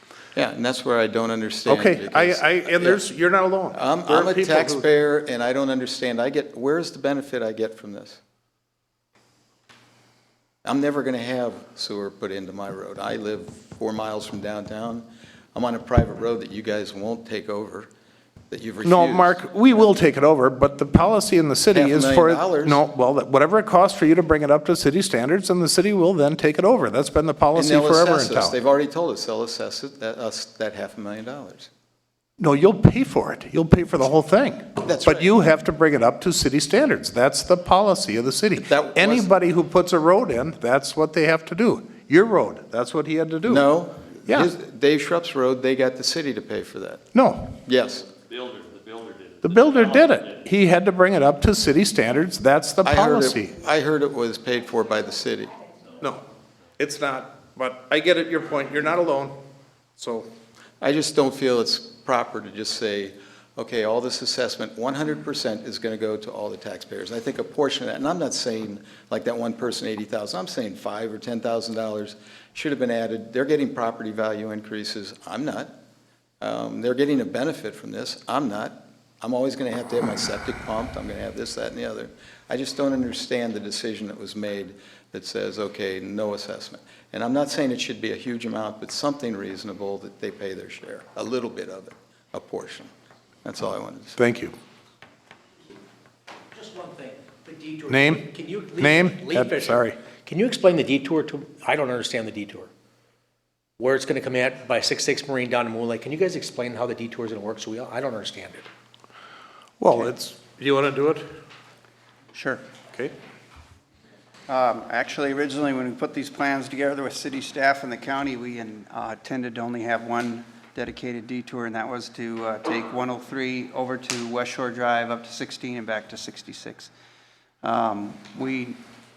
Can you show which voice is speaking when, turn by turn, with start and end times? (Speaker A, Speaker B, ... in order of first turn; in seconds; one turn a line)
Speaker A: 0.3-3.0
Speaker B: 1.7-4.8
Speaker A: 3.7-8.2
Speaker A: 10.7-17.9
Speaker A: 18.5-19.9
Speaker B: 18.8-28.6
Speaker A: 21.7-22.8
Speaker A: 27.5-31.7
Speaker B: 32.4-43.6
Speaker A: 34.8-35.3
Speaker A: 38.6-39.3
Speaker A: 43.5-47.0
Speaker B: 47.1-47.6
Speaker A: 47.6-48.1
Speaker C: 48.0-50.6
Speaker B: 49.4-53.6
Speaker A: 52.8-55.5
Speaker B: 56.8-59.4
Speaker B: 60.0-60.3
Speaker A: 60.8-75.7
Speaker A: 76.4-92.9
Speaker A: 93.4-94.2
Speaker B: 94.2-94.5
Speaker D: 96.5-102.7
Speaker B: 97.9-100.0
Speaker D: 103.8-108.7
Speaker B: 109.8-111.2
Speaker E: 112.3-112.6
Speaker E: 114.5-126.9
Speaker E: 127.6-128.8